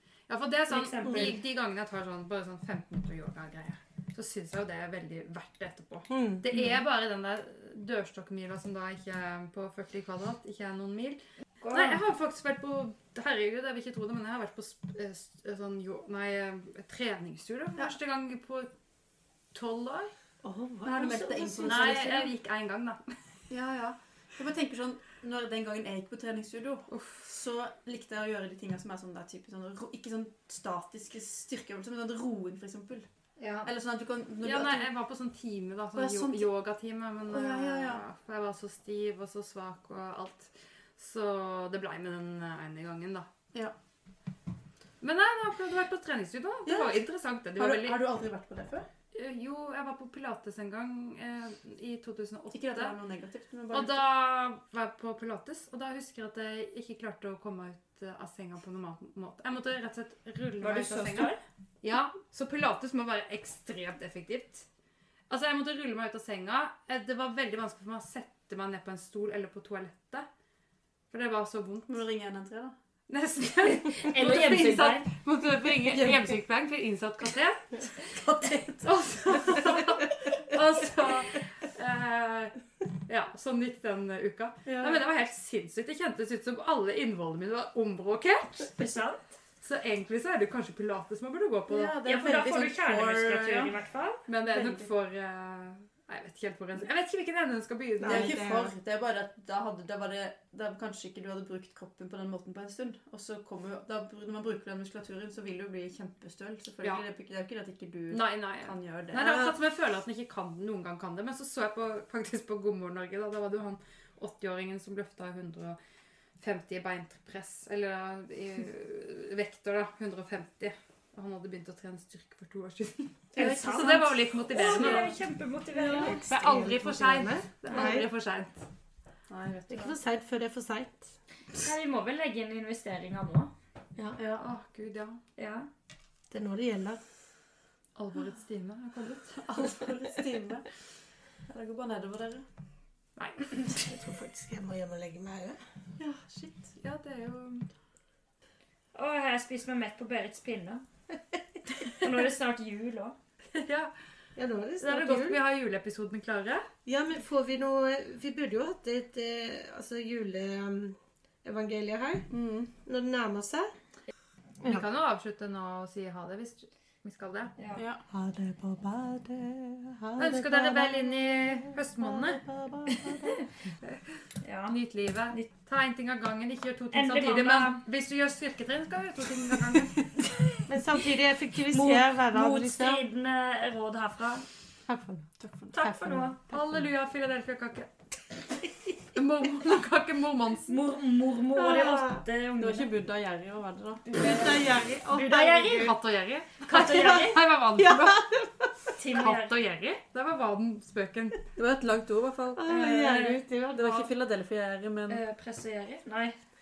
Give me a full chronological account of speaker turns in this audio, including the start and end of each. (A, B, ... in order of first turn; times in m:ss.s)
0:00.3-0:18.7 A
0:00.7-0:01.4 B
0:01.0-0:01.4 C
0:06.1-0:06.5 C
0:11.6-0:12.0 B
0:19.5-0:20.1 A
0:20.4-0:22.2 C
0:20.8-0:22.3 D
0:21.6-0:23.0 A
0:23.5-0:33.1 D
0:26.9-0:27.3 A
0:33.4-0:33.7 A
0:33.6-0:34.9 D
0:34.4-0:43.3 A
0:36.0-0:36.5 D
0:37.3-0:38.0 D
0:45.0-0:48.0 A
0:46.7-0:47.0 D
0:47.6-0:48.9 D
0:49.1-0:53.0 A
0:52.5-0:54.1 D
0:53.7-1:04.7 A
1:00.6-1:01.4 B
1:05.3-1:10.3 A
1:11.1-1:11.9 A
1:11.9-1:12.8 D
1:13.1-1:18.3 A
1:13.6-1:15.1 B
1:15.8-1:16.3 D
1:18.1-1:18.9 D
1:18.8-1:22.5 A
1:23.1-1:28.8 A
1:24.7-1:25.0 D
1:28.8-1:29.3 B
1:29.6-1:32.0 A
1:31.7-1:33.8 D
1:32.0-1:34.3 B
1:34.3-1:38.3 A
1:34.5-1:34.8 D
1:38.0-1:38.7 C
1:38.0-1:49.6 D
1:48.1-1:55.8 A
1:56.4-2:05.1 A
2:03.3-2:06.3 B
2:04.6-2:05.0 C
2:05.7-2:08.1 C
2:06.3-2:08.6 A
2:09.3-2:10.0 D
2:09.7-2:11.1 C
2:11.6-2:13.5 B
2:14.2-2:14.5 D
2:14.4-2:15.2 A
2:15.4-2:15.7 B
2:16.3-2:17.0 C
2:18.0-2:19.4 A
2:19.4-2:20.7 D
2:21.4-2:22.5 D
2:23.2-2:23.8 A
2:23.7-2:25.6 C
2:26.0-2:26.7 D
2:26.8-2:27.7 A
2:29.0-2:30.8 B
2:31.9-2:33.2 B
2:33.5-2:33.9 A
2:34.4-2:35.4 C
2:34.8-2:36.7 A
2:36.8-2:42.3 C
2:42.3-2:42.7 D
2:42.8-2:43.7 C
2:44.6-2:47.5 A
2:47.6-2:47.8 B
2:47.8-2:48.0 D
2:48.1-2:53.4 C
2:50.2-2:52.4 A
2:52.9-2:53.2 B
2:54.4-2:54.8 B
2:54.7-3:00.1 A
2:56.9-2:57.8 B
3:00.7-3:03.0 C
3:01.7-3:04.5 B
3:04.9-3:06.3 C
3:05.4-3:05.8 D
3:05.7-3:06.4 B
3:06.5-3:07.9 A
3:09.2-3:10.7 A
3:10.7-3:12.9 B
3:11.6-3:12.2 C
3:12.6-3:14.0 D
3:14.1-3:16.0 B
3:14.2-3:16.0 C
3:15.8-3:18.2 A
3:16.6-3:17.4 B
3:17.8-3:18.9 C
3:19.0-3:19.5 B
3:19.2-3:21.4 A
3:21.6-3:22.7 D
3:22.6-3:24.1 C
3:22.7-3:23.4 B
3:23.7-3:25.2 D
3:25.1-3:26.4 B